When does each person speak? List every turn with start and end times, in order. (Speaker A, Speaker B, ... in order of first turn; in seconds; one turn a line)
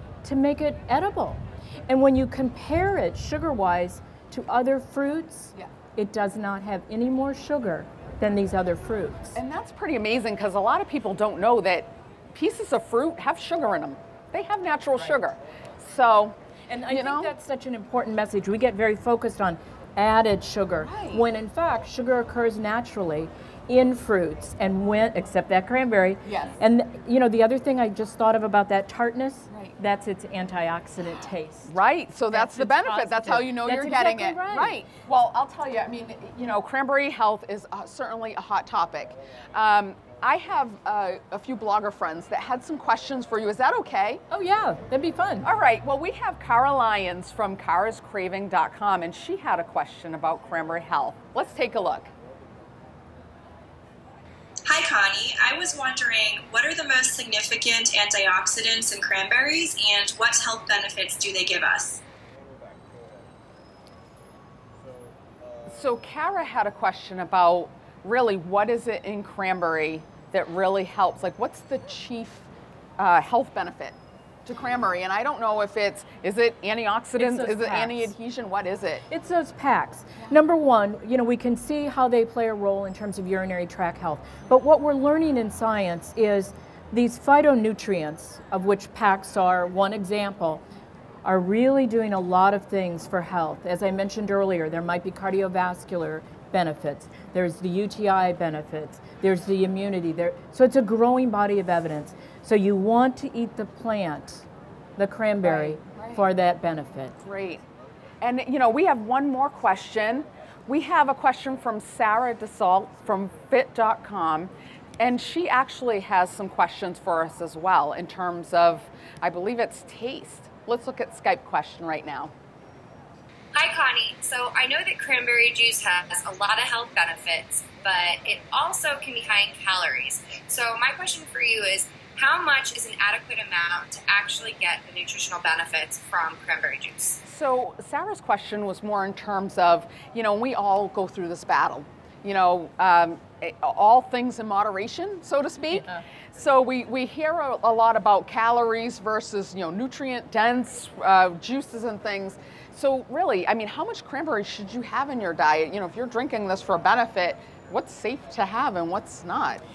Speaker A: 0.2-9.4
Speaker B: 9.4-16.4
Speaker A: 16.7-31.7
Speaker B: 16.9-17.3
Speaker B: 20.8-21.2
Speaker B: 26.2-26.6
Speaker B: 29.5-29.8
Speaker B: 31.7-44.2
Speaker A: 32.3-34.8
Speaker A: 44.3-45.5
Speaker B: 45.4-52.1
Speaker C: 54.7-62.0
Speaker B: 65.7-72.5
Speaker B: 73.0-74.0
Speaker B: 74.5-79.0
Speaker A: 77.2-78.1
Speaker A: 79.1-90.6
Speaker A: 91.2-104.5
Speaker A: 105.0-107.2
Speaker B: 105.4-106.2
Speaker B: 107.2-107.6
Speaker B: 108.2-122.3
Speaker D: 123.5-137.2
Speaker B: 137.2-159.6
Speaker A: 145.7-146.0